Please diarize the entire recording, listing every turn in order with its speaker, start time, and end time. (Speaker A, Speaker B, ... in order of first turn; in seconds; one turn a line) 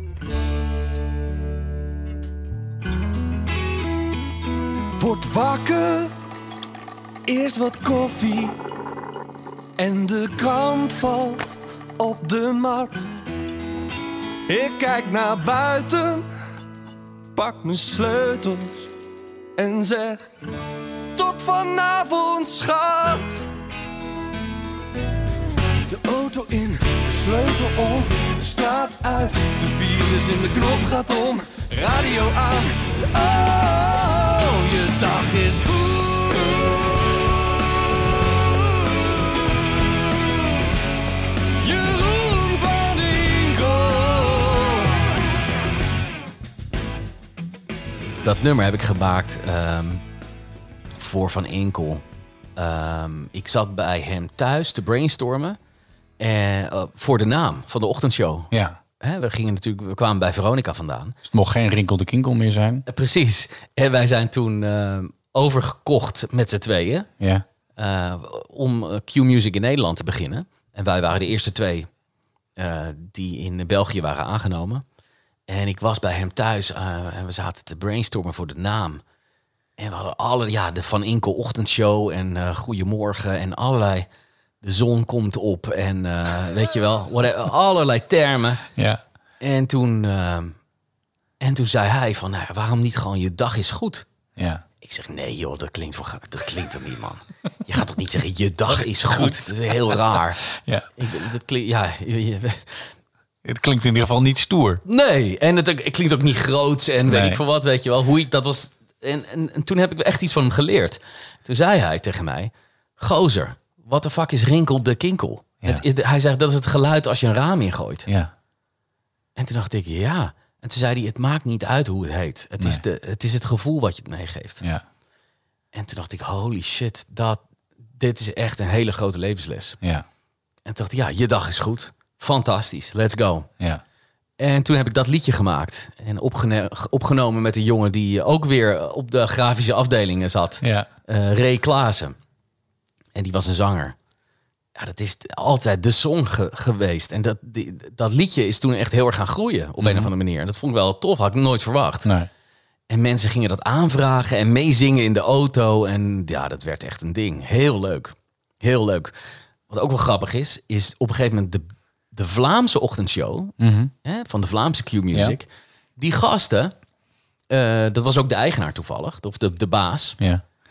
Speaker A: 5.0-6.1
Speaker A: 7.2-8.6
Speaker A: 9.8-13.1
Speaker A: 14.5-16.3
Speaker A: 17.3-18.9
Speaker A: 19.6-20.3
Speaker A: 21.1-23.5
Speaker A: 25.9-39.3
Speaker A: 41.6-45.1
Speaker B: 48.2-50.0
Speaker B: 50.9-52.0
Speaker B: 52.5-55.6
Speaker B: 56.2-61.2
Speaker C: 58.5-58.8
Speaker C: 61.2-62.8
Speaker B: 62.9-67.1
Speaker B: 67.8-71.9
Speaker B: 72.5-74.8
Speaker B: 75.5-79.0
Speaker B: 79.8-84.1
Speaker B: 84.6-88.6
Speaker B: 89.4-90.6
Speaker B: 91.4-94.0
Speaker C: 94.4-94.6
Speaker B: 94.8-100.4
Speaker C: 98.7-100.8
Speaker B: 101.0-102.9
Speaker C: 103.4-104.8
Speaker B: 104.8-118.1
Speaker C: 107.1-107.4
Speaker B: 119.3-124.6
Speaker B: 125.7-129.8
Speaker B: 130.6-133.5
Speaker B: 134.4-142.2
Speaker C: 140.6-140.9
Speaker B: 143.1-143.9
Speaker B: 144.7-152.1
Speaker C: 149.8-150.1
Speaker B: 152.9-159.1
Speaker B: 159.7-166.7
Speaker C: 163.6-163.9
Speaker B: 167.5-170.2